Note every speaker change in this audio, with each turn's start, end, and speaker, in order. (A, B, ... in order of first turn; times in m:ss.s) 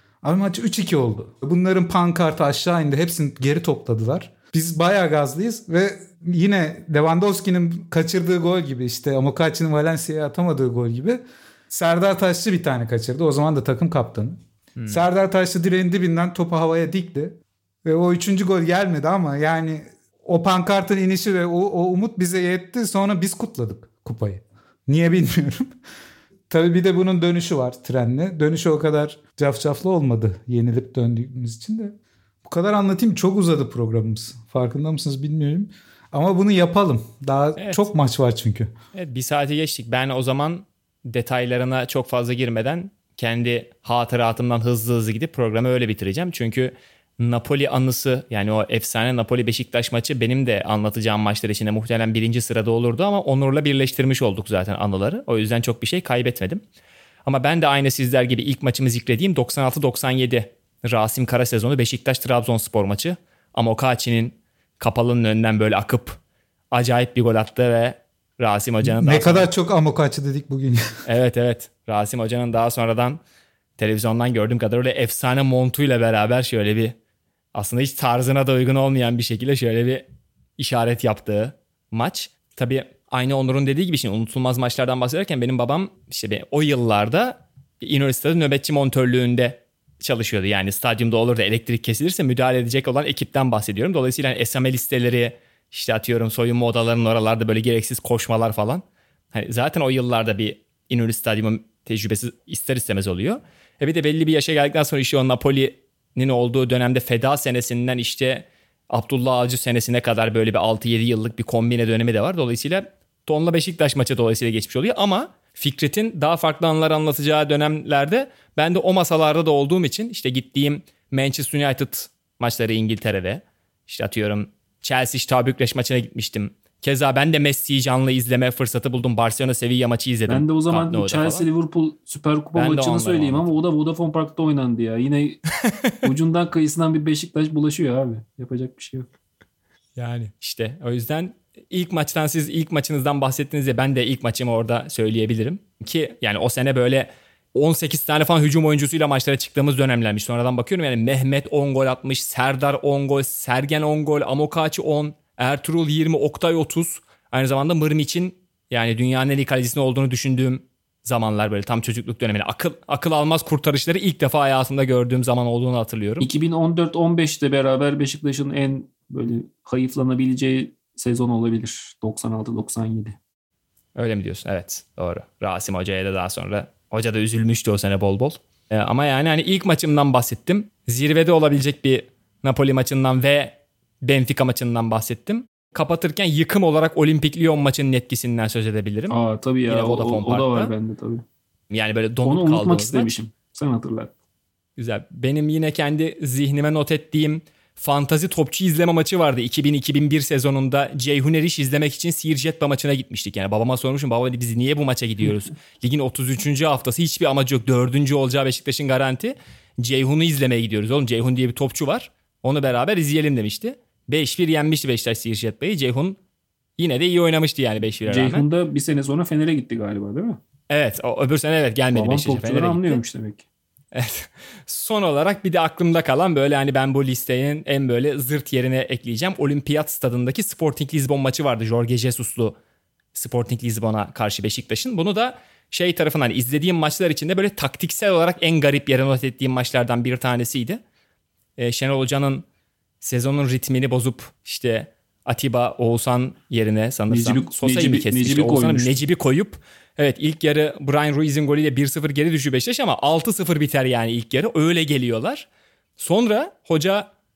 0:00.2-0:14.4 A
0:14.8-0:15.1 B
0:14.9-0:25.7 A
0:26.5-0:38.7 A
0:37.6-0:37.9 B
0:38.9-0:56.6 B
0:57.2-1:06.2 B
1:06.7-1:09.5 B
1:08.8-1:10.8 A
1:11.0-1:13.2 B
1:13.8-1:17.0 B
1:17.5-1:20.0 B
1:20.6-2:11.5 B
2:10.3-2:15.4 C
2:12.5-2:13.5 B
2:15.6-2:16.0 B
2:16.0-2:19.1 C
2:20.0-2:46.3 B
2:46.2-2:53.2 C
2:53.9-3:09.2 B
3:09.1-3:11.2 C
3:09.7-3:10.7 B
3:11.7-3:13.1 B
3:12.2-3:14.1 C
3:14.8-3:36.2 B
3:36.8-3:38.4 B
3:38.0-3:40.4 C
3:40.7-3:43.0 B
3:41.9-3:43.4 C
3:43.9-3:52.6 B
3:53.1-4:00.8 B
4:01.6-4:02.4 B
4:03.0-4:17.1 B
4:07.1-4:09.0 C